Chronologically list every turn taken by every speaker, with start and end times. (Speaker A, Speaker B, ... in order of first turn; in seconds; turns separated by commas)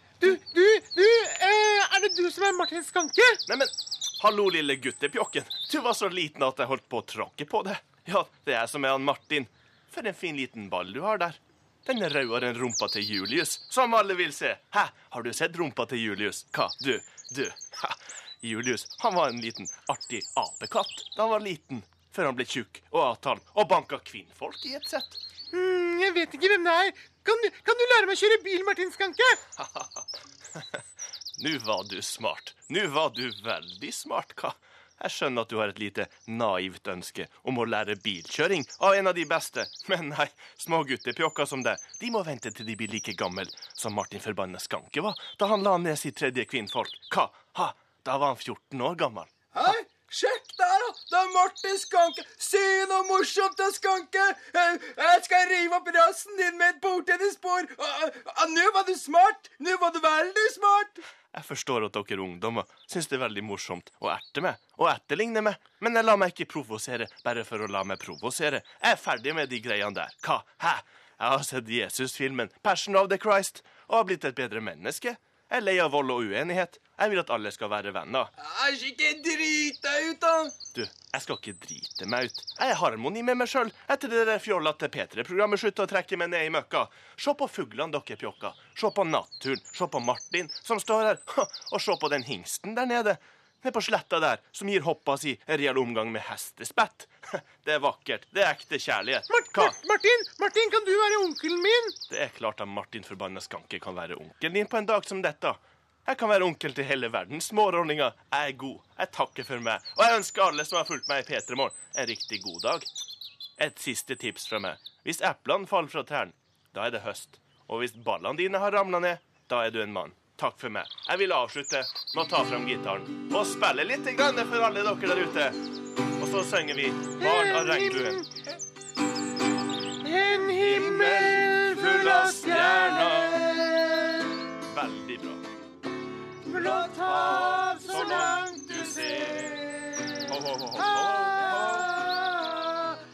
Speaker A: 0.2-3.4, Speaker B: 3.5-25.2, Speaker A: 25.5-29.4, Speaker B: 31.4-49.3, Speaker C: 49.5-61.0, Speaker B: 61.3-78.3, Speaker C: 78.4-80.5, Speaker B: 80.7-99.8, Speaker A: 99.3-101.9, Speaker B: 102.1-112.9, Speaker B: 113.6-125.6, Speaker B: 126.2-128.2, Speaker A: 127.2-128.2, Speaker A: 130.1-133.8, Speaker B: 130.5-133.5, Speaker B: 134.7-135.4, Speaker A: 136.5-139.4, Speaker B: 136.6-139.7, Speaker B: 140.2-141.9, Speaker A: 141.0-142.2